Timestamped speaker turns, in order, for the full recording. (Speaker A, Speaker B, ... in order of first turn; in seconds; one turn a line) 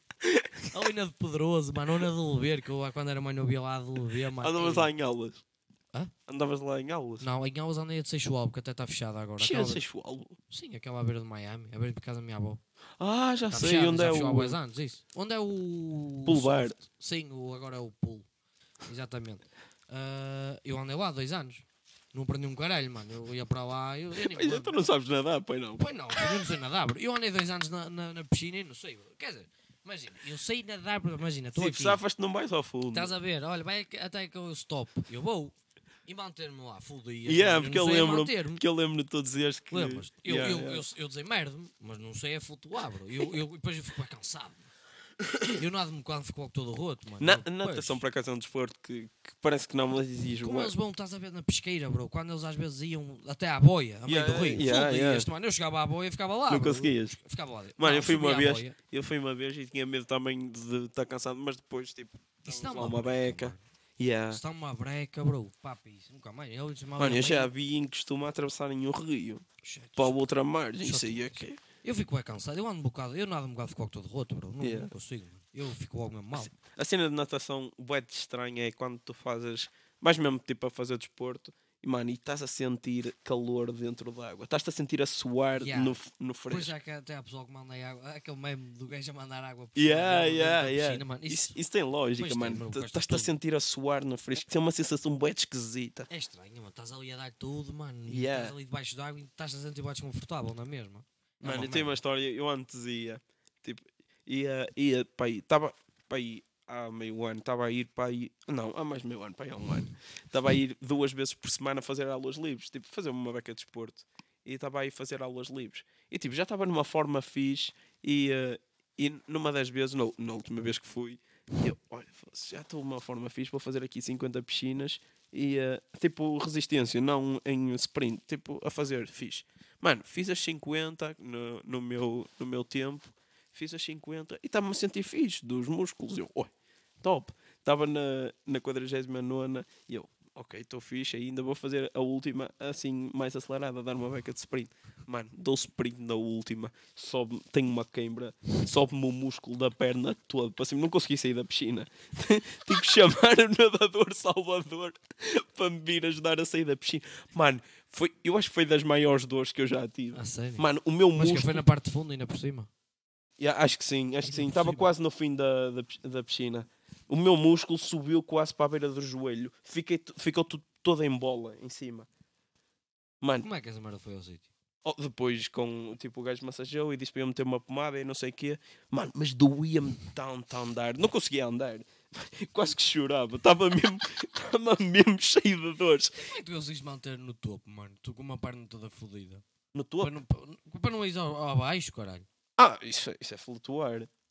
Speaker A: 0.2-0.7
Speaker B: 0.7-4.9
Speaker A: 4.4-5.4
Speaker A: 6.3-7.2
Speaker B: 7.2-9.8
Speaker A: 9.4-10.4
Speaker B: 10.5-12.6
Speaker A: 13.0-14.6
Speaker B: 13.5-18.2
Speaker A: 16.2-16.8
Speaker B: 18.8-24.8
Speaker A: 24.1-25.9
Speaker B: 25.8-32.0
Speaker A: 31.6-33.1
Speaker B: 32.9-35.5
Speaker B: 36.0-38.6
Speaker A: 37.2-40.8
Speaker B: 39.7-44.7
Speaker B: 45.5-48.0
Speaker A: 47.2-50.7
Speaker B: 50.4-58.8
Speaker A: 54.0-55.3
Speaker A: 56.5-57.1
Speaker A: 57.8-64.4
Speaker B: 62.4-63.6
Speaker B: 64.3-67.5
Speaker A: 67.0-69.4
Speaker B: 69.6-70.2
Speaker A: 70.0-71.6
Speaker B: 70.8-76.5
Speaker A: 74.6-74.9
Speaker A: 76.3-86.7
Speaker B: 85.6-91.6
Speaker A: 89.8-96.1
Speaker B: 92.2-93.3
Speaker B: 96.1-102.0
Speaker A: 98.1-98.5
Speaker A: 101.4-136.5
Speaker A: 137.0-161.6
Speaker B: 160.1-162.7
Speaker A: 163.4-172.1
Speaker B: 164.2-164.9
Speaker A: 173.2-173.5
Speaker B: 173.4-174.5
Speaker A: 174.8-186.3
Speaker B: 186.2-189.4
Speaker A: 189.7-190.1
Speaker B: 190.0-192.2
Speaker A: 192.6-194.1